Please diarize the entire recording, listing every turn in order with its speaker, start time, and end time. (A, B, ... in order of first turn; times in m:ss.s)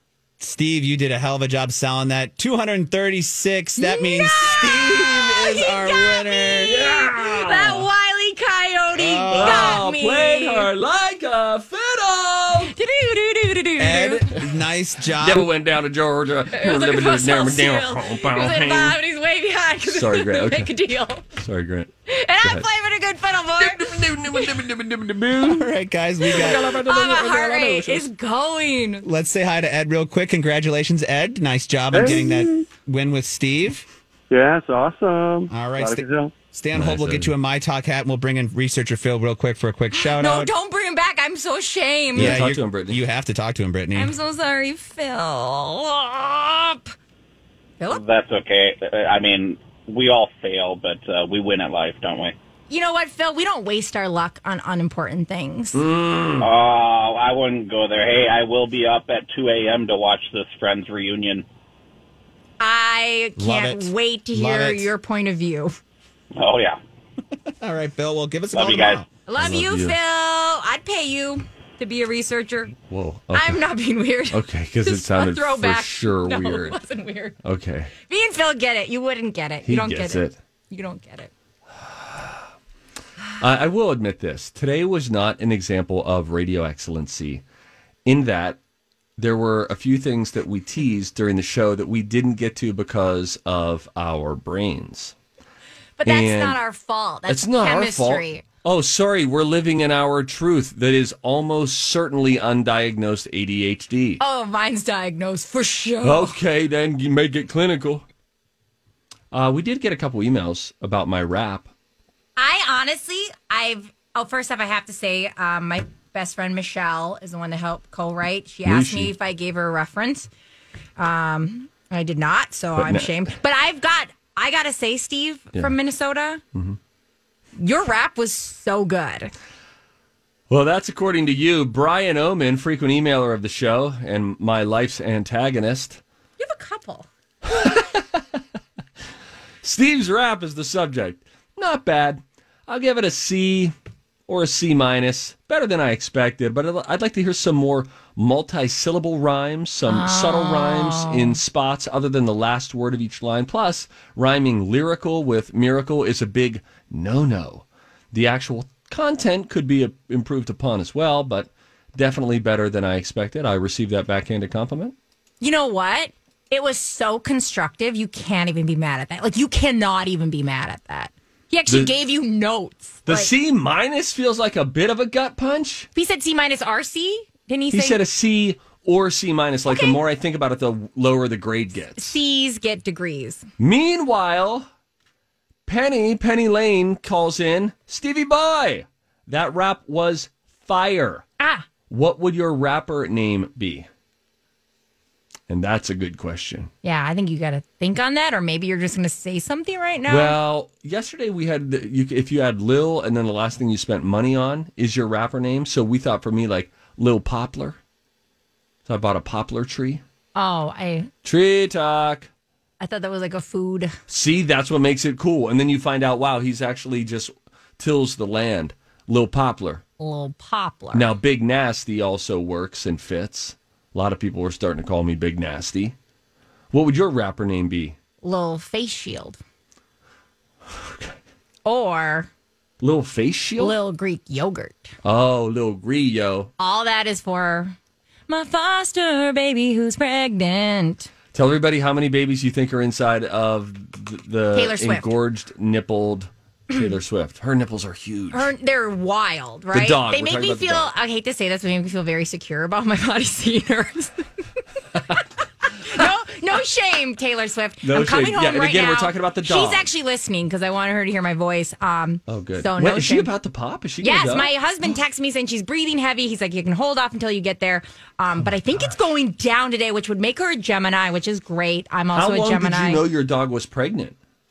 0:00.4-0:06.9 A
0:03.8-0:10.7 B
0:06.6-0:07.9 C
0:08.9-0:09.8 A
0:09.3-0:12.7 C
0:12.7-0:14.3 B
0:13.8-0:15.5 A
0:15.2-0:19.0 C
0:16.5-0:21.3 B
0:19.9-0:20.7 C
0:21.3-0:21.9 C
0:22.1-0:24.6 B
0:23.6-0:25.7 C
0:25.4-0:26.7 A
0:26.2-0:29.0 B
0:26.3-0:28.1 C
0:29.0-0:33.9 A
0:31.9-0:32.6 D
0:34.3-0:36.3 D
0:35.5-0:40.5 A
0:36.7-0:37.3 C
0:39.9-0:42.4 B
0:42.1-0:43.0 C
0:42.1-0:44.1 A
0:43.9-0:46.9 B
0:47.9-0:52.3 E
0:52.7-0:55.8 B
0:55.7-0:56.5 C
0:56.4-1:01.4 E
1:02.6-1:05.7 B
1:03.4-1:04.9 A
1:06.4-1:06.8 E
1:07.6-1:09.1 A
1:08.5-1:09.0 E
1:09.2-1:12.7 B
1:09.4-1:10.0 C
1:12.9-1:13.6 C
1:13.3-1:17.4 B
1:14.3-1:16.8 C
1:17.4-1:17.9 C
1:18.1-1:21.3 B
1:19.6-1:20.4 C
1:23.4-1:27.4 C
1:28.0-1:28.6 C
1:29.2-1:35.1 C
1:36.0-1:38.4 B
1:36.0-1:36.6 C
1:37.3-1:44.2 C
1:44.2-1:46.4 B
1:46.0-1:48.0 C
1:49.3-1:51.7 C
1:52.4-2:00.3 B
1:58.6-1:59.1 C
2:01.0-2:06.4 B
2:02.8-2:03.3 C
2:07.6-2:09.3 B
2:10.5-2:16.0 C
2:16.4-2:17.1 B
2:17.4-2:18.2 C
2:19.6-2:23.7 C
2:24.3-2:44.9 C
2:29.9-2:31.4 B
2:45.4-2:53.3 B
2:53.1-2:55.9 C
2:55.9-2:58.0 B
2:57.7-3:02.2 C
2:59.7-3:00.0 B
3:02.0-3:03.4 B
3:03.6-3:04.7 C
3:05.7-3:11.2 C
3:11.4-3:11.6 B
3:11.9-3:13.9 C
3:15.5-3:16.7 C
3:16.8-3:20.4 B
3:20.1-3:27.8 C
3:28.8-3:30.0 C
3:30.3-3:31.1 B
3:31.2-3:32.3 C
3:32.8-3:33.9 B
3:34.1-3:39.8 C
3:40.0-3:41.1 B
3:40.9-3:45.9 C
3:46.7-3:48.0 C
3:48.2-3:49.4 B
3:50.8-3:51.2 C
3:51.6-3:52.3 B
3:52.8-3:53.8 C
3:53.6-3:54.9 B
3:55.0-3:56.5 C
3:56.6-3:57.8 B
3:58.3-4:01.1 B
4:01.3-4:08.5 C
4:04.5-4:05.1 B
4:08.3-4:14.2 B
4:09.7-4:10.9 C
4:15.7-4:23.3 B
4:17.8-4:19.9 C
4:22.3-4:24.5 C
4:24.0-4:33.0 B
4:28.4-4:28.9 C
4:32.1-4:34.2 C